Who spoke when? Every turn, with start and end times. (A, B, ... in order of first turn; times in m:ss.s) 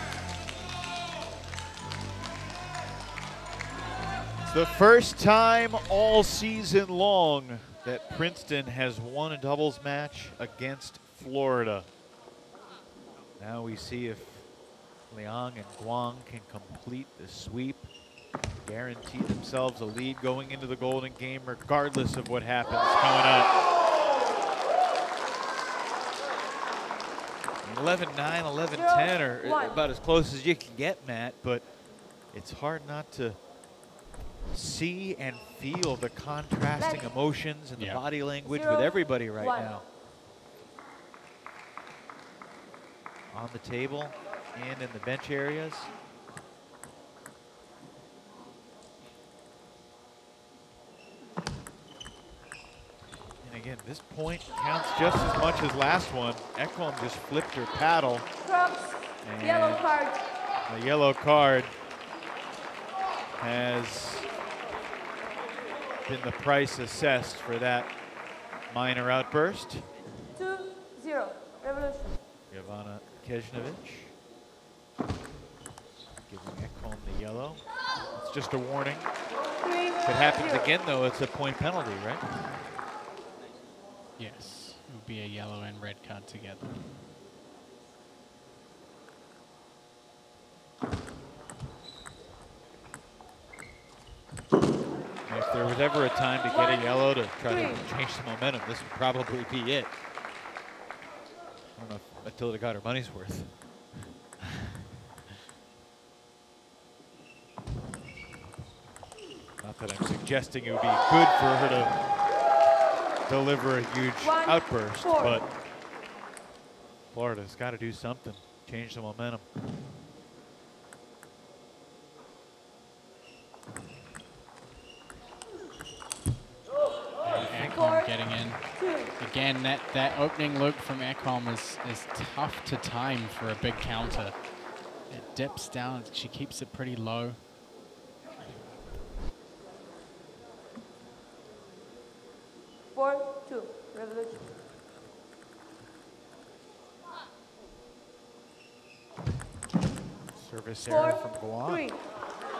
0:04.5-0:11.9 A
0:13.4-0:14.5 A
0:15.1-0:17.9 A
0:18.6-0:23.6 A
0:27.6-0:31.8 A
0:28.7-0:29.8 B
0:32.3-0:33.4 A
0:34.5-0:39.8 A
0:36.8-0:37.1 B
0:37.8-0:38.0 C
0:38.4-0:39.7 B
0:43.3-0:45.9 A
0:53.4-0:58.2 A
0:58.4-1:00.2 B
0:59.2-0:59.9 A
1:00.7-1:01.7 A
1:03.4-1:04.3 A
1:06.0-1:07.9 A
1:08.7-1:09.8 A
1:10.4-1:12.2 B
1:12.5-1:14.1 A
1:16.3-1:19.1 A
1:19.6-1:20.7 B
1:20.0-1:22.2 A
1:24.2-1:26.8 C
1:35.2-1:39.9 A
1:36.4-1:37.9 B
1:41.7-1:43.9 A
1:49.6-1:52.0 A
1:53.2-1:55.5 A
1:54.2-1:55.4 B
1:57.1-1:59.5 A
2:07.2-2:14.4 C
2:07.4-2:07.7 A
2:07.6-2:09.1 B
2:15.1-2:17.4 C
2:22.9-2:24.5 B
2:30.3-2:31.9 A
2:30.8-2:32.0 B